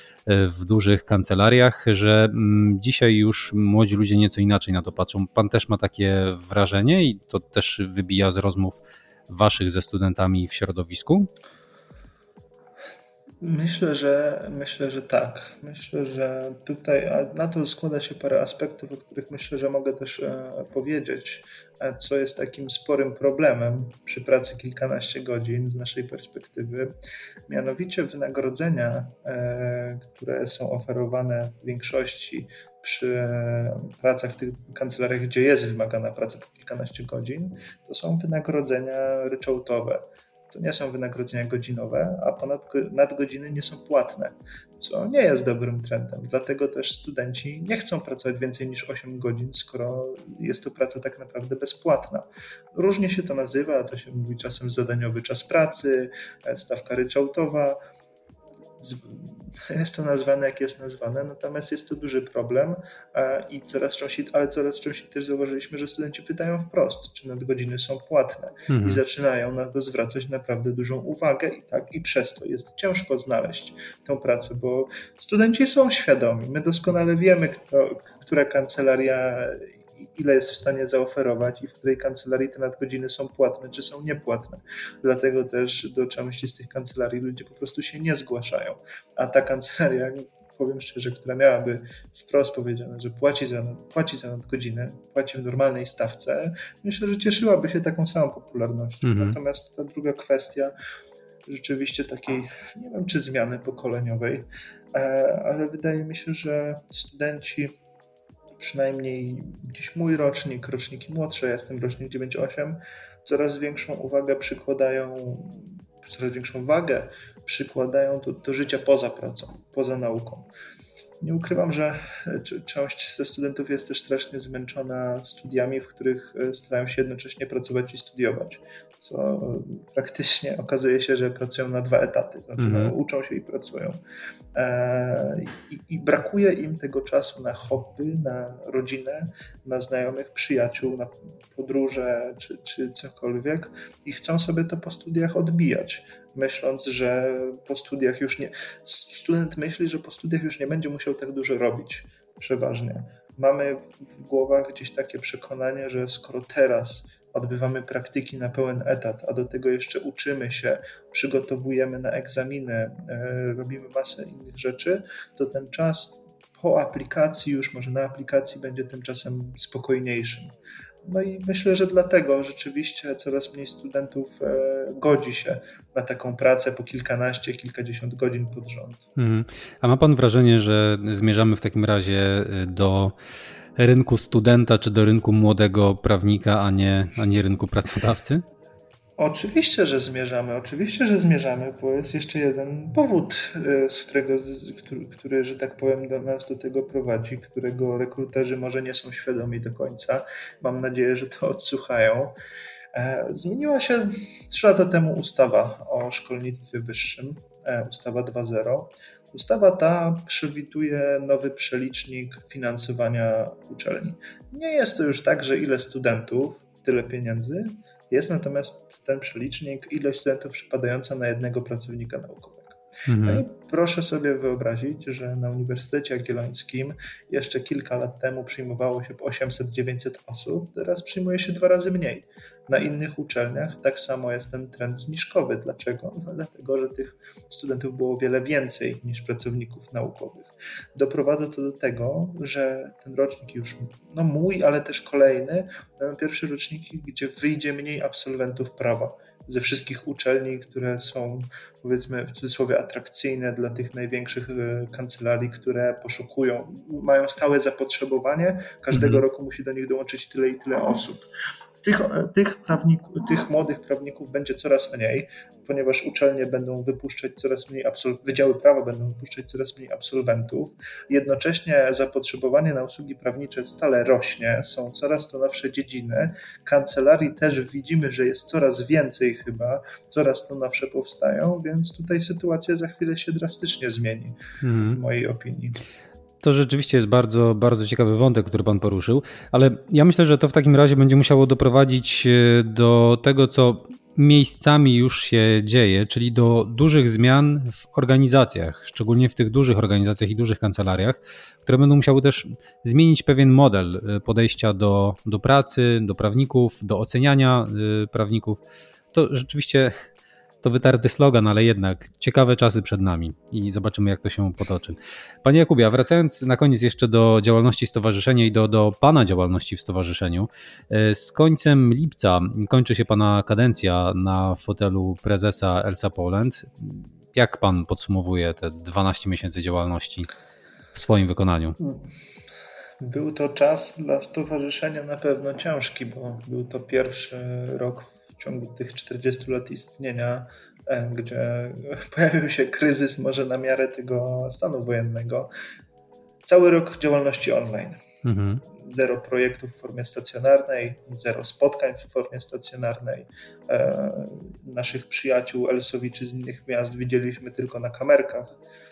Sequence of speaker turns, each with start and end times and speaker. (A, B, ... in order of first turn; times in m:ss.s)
0:00.3-0:11.3 A
0:13.4-0:26.9 B
0:27.5-0:57.8 B
0:58.8-1:40.7 B
1:08.7-1:09.0 A
1:39.0-1:39.4 A
1:41.4-1:47.8 B
1:48.6-2:00.5 B
2:01.2-2:14.0 B
2:12.6-2:12.9 A
2:14.5-2:50.5 B
2:51.0-2:59.0 B
2:59.2-3:03.1 A
3:03.8-3:08.4 A
3:09.2-3:22.3 B
3:22.9-4:21.2 B
3:43.0-3:43.4 A
4:18.9-4:19.2 A
4:21.8-4:45.8 B
4:44.6-4:45.0 A
4:46.4-5:08.6 A
5:09.1-5:09.9 A
5:10.6-5:30.3 A
5:30.9-5:31.8 A
5:31.8-5:32.0 B
5:33.0-5:45.5 B
5:46.4-5:48.0 B
5:48.2-5:48.6 A
5:48.7-5:58.6 B